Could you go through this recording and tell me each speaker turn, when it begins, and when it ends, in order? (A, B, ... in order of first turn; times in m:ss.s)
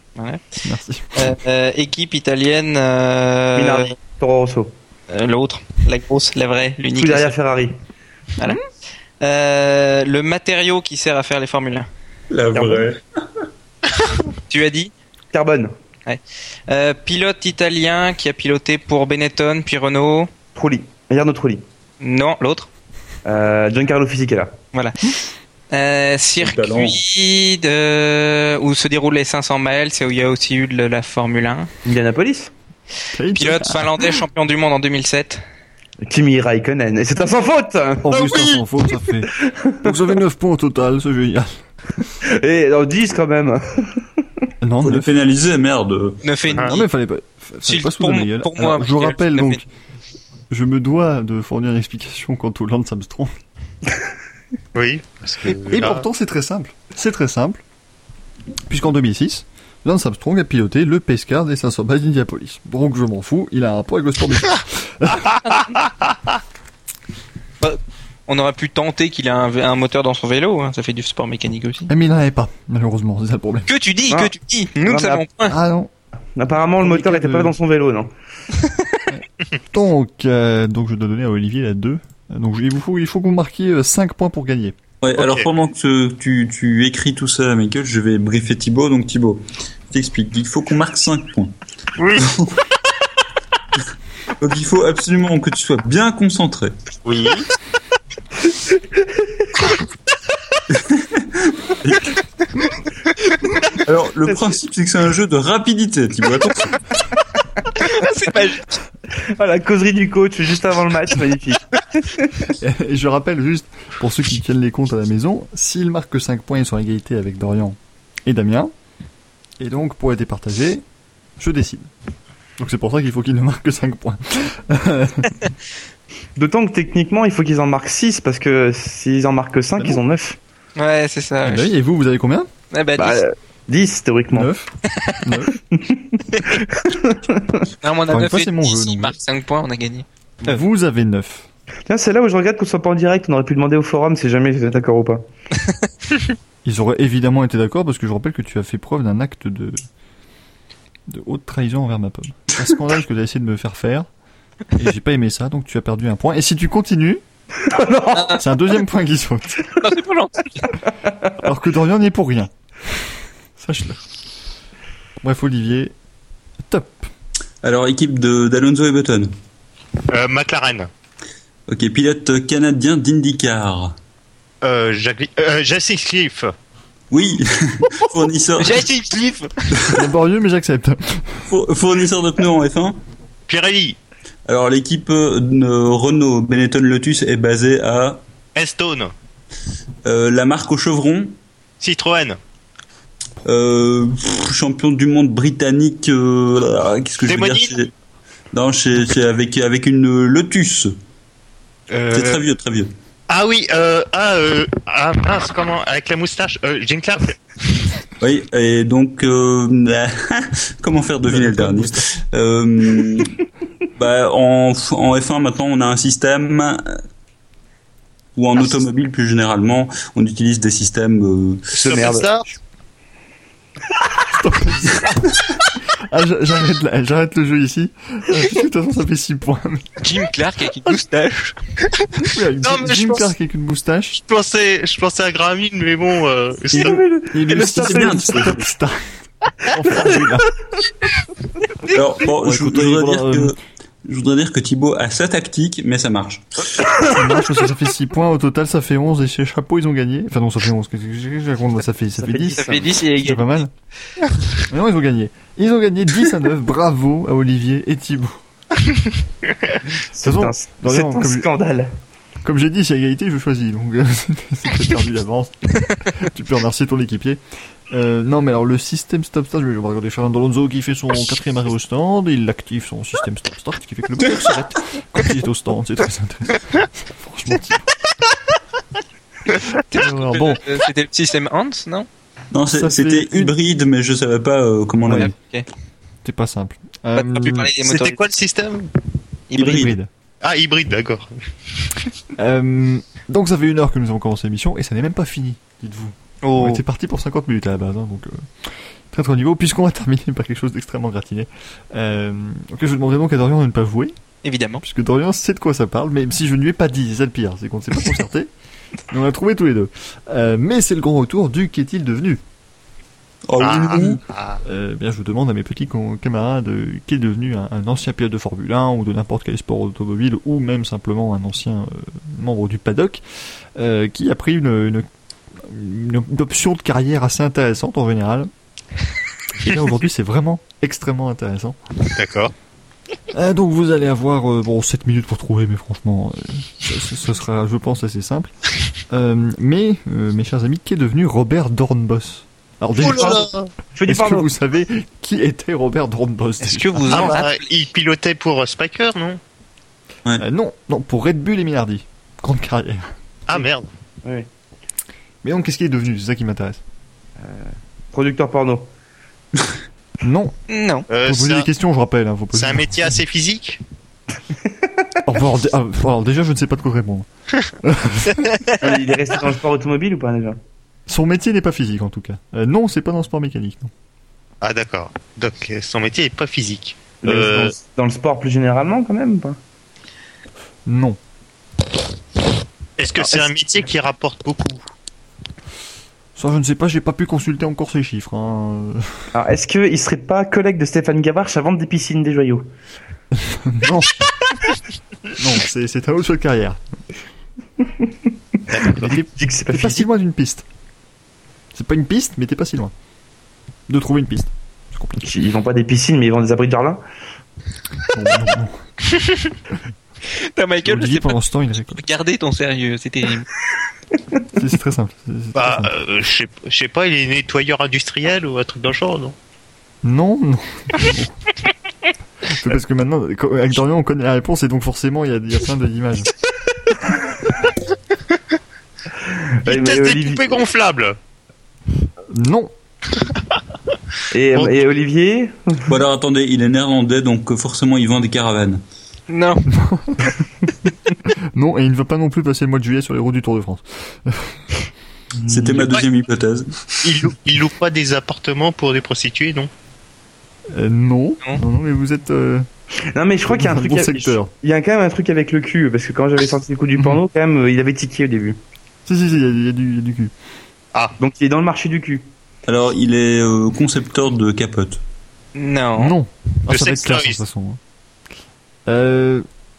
0:00.2-0:00.4 A
0:00.6-0:01.3 B
0:01.2-0:03.9 A
0:03.6-0:04.7 C
0:05.1-0:07.4 A
0:07.0-0:07.8 C
0:09.2-0:11.9 A
0:12.3-0:13.0 D
0:12.5-0:12.9 C
0:14.5-0:14.9 A
0:15.3-0:15.7 C
0:16.1-0:20.3 A
0:20.6-0:21.6 C
0:22.0-0:22.7 A
0:23.2-0:24.6 C
0:24.7-0:25.2 A
0:25.7-0:31.7 A
0:26.4-0:27.0 D
0:31.8-0:32.5 C
0:33.1-0:34.2 B
0:33.4-0:35.4 A
0:36.0-0:38.3 C
0:38.0-0:42.1 B
0:39.4-0:39.9 C
0:42.2-0:44.1 C
0:44.6-0:45.1 B
0:44.8-0:46.2 D
0:46.2-0:46.9 A
0:46.6-0:49.7 B
0:47.6-0:49.6 A
0:50.5-0:53.4 B
0:54.8-0:56.1 E
0:55.7-0:57.6 B
0:58.7-1:05.6 B
1:07.6-1:11.9 A
1:11.9-1:13.7 B
1:13.7-1:15.6 A
1:14.1-1:15.2 C
1:15.5-1:15.9 B
1:16.4-1:18.1 C
1:16.8-1:17.6 B
1:19.1-1:24.8 B
1:25.0-1:31.5 D
1:25.2-1:25.5 E
1:32.0-1:32.3 E
1:32.2-1:32.6 D
1:34.4-1:36.8 D
1:37.0-1:37.5 E
1:40.7-1:42.2 D
1:43.7-1:46.8 D
1:47.8-1:48.8 A
1:49.1-1:52.5 C
1:52.5-1:58.7 B
1:59.6-2:00.8 B
2:01.4-2:01.9 B
2:02.6-2:05.4 B
2:06.4-2:10.4 C
2:10.8-2:11.7 A
2:11.4-2:12.5 B
2:12.7-2:13.2 A
2:13.0-2:14.5 C
2:14.3-2:14.7 B
2:15.2-2:15.6 B
2:15.7-2:17.7 C
2:16.3-2:16.6 A
2:17.8-2:20.6 A
2:18.1-2:19.2 B
2:20.4-2:21.5 B
2:21.9-2:25.2 C
2:26.6-2:29.8 B
2:31.1-2:34.1 B
2:34.7-2:37.2 B
2:37.6-2:38.4 C
2:38.3-2:39.8 B
2:39.8-2:40.7 A
2:41.4-2:44.0 B
2:45.2-2:46.0 B
2:46.6-2:47.1 B
2:47.6-2:49.3 D
2:50.1-2:50.9 E
2:51.7-2:54.0 D
2:54.6-2:56.5 E
2:57.1-2:58.9 D
2:58.6-2:59.7 A
2:59.9-3:01.4 B
3:01.5-3:03.0 D
3:03.5-3:04.0 E
3:04.5-3:08.2 D
3:08.6-3:09.1 E
3:10.0-3:11.4 D
3:11.8-3:12.4 E
3:13.4-3:17.9 D
3:17.2-3:17.8 E
3:18.5-3:21.0 D
3:22.0-3:22.4 E
3:22.1-3:22.9 D
3:23.3-3:27.4 E
3:28.2-3:33.4 D
3:31.3-3:31.9 B
3:34.0-3:37.0 D
3:38.4-3:41.8 D
3:41.8-3:42.5 E
3:41.8-3:42.3 C
3:44.3-3:45.4 B
3:45.9-3:50.0 B
3:50.0-3:51.6 A
3:52.2-3:54.2 B
3:52.6-3:53.3 E
3:54.2-3:57.0 E
3:56.7-3:59.1 B
3:56.7-3:58.5 C
3:57.8-3:58.6 D
3:59.7-4:00.5 B
4:01.8-4:06.9 D
4:02.3-4:03.5 B
4:07.0-4:13.7 B
4:12.2-4:12.8 C
4:12.5-4:13.6 A
4:14.7-4:18.4 B
4:19.9-4:21.9 C
4:20.2-4:21.5 B
4:22.4-4:37.9 B
4:39.7-4:42.1 A
4:39.9-4:40.6 B
4:42.5-4:45.3 D
4:42.7-4:43.5 B
4:45.1-4:45.3 B
4:45.1-4:45.7 A
4:46.2-4:47.7 B
4:47.2-4:48.2 A
4:47.8-4:48.9 E
4:49.5-4:49.9 A
4:49.6-4:50.1 B
4:50.4-4:51.3 E
4:52.4-5:04.1 B
4:56.4-4:56.8 A
5:04.4-5:04.8 A
5:04.8-5:08.5 B
5:09.1-5:12.4 B
5:13.5-5:14.2 D
5:13.6-5:14.6 E
5:14.6-5:23.2 B
5:23.8-5:25.1 B
5:25.6-5:28.5 B
5:29.6-5:31.8 B
5:32.1-5:32.5 E
5:33.3-5:38.5 B
5:39.1-5:43.5 B
5:43.0-5:43.7 E
5:43.1-5:44.5 C
5:44.0-5:47.4 B
5:46.6-5:47.6 A
5:47.1-5:49.4 E
5:50.4-5:53.1 B
5:53.5-5:53.9 E
5:55.4-5:56.8 B
5:57.4-5:58.9 C
6:00.2-6:00.6 B
6:00.7-6:01.1 A
6:01.1-6:01.7 E
6:01.2-6:03.2 B
6:02.5-6:03.8 E
6:05.3-6:07.3 B
6:07.8-6:08.5 B
6:08.8-6:10.6 C
6:11.1-6:13.9 B
6:14.6-6:17.8 E
6:17.2-6:19.6 C
6:20.9-6:21.2 B
6:23.0-6:24.8 E
6:23.2-6:23.5 C
6:26.4-6:29.4 B
6:29.4-6:32.7 C
6:33.3-6:34.2 B
6:35.3-6:36.8 B
6:38.7-6:39.2 E
6:38.9-6:40.7 B
6:39.4-6:40.1 C
6:41.7-6:42.9 B
6:43.9-6:45.3 B
6:45.2-6:47.0 C
6:48.1-6:48.8 B
6:49.2-6:49.5 A
6:50.5-6:53.5 A
6:50.8-6:52.0 B
6:54.5-6:55.9 B
6:55.6-6:59.4 E
7:00.0-7:01.3 B
7:02.4-7:06.3 B
7:09.2-7:10.6 C
7:09.6-7:11.2 E
7:12.3-7:12.7 B
7:14.3-7:16.0 C
7:15.9-7:18.8 D
7:19.3-7:19.7 A
7:19.7-7:20.4 B
7:21.3-7:24.8 B
7:25.4-7:25.9 C
7:25.5-7:27.0 D
7:27.0-7:29.7 E
7:30.7-7:32.7 B
7:33.1-7:38.6 C
7:33.5-7:34.5 B
7:39.1-7:40.3 B
7:41.2-7:42.2 C
7:42.7-7:45.0 D
7:45.6-7:46.2 A
7:46.0-7:47.8 B
7:46.7-7:47.4 E
7:48.9-7:49.4 B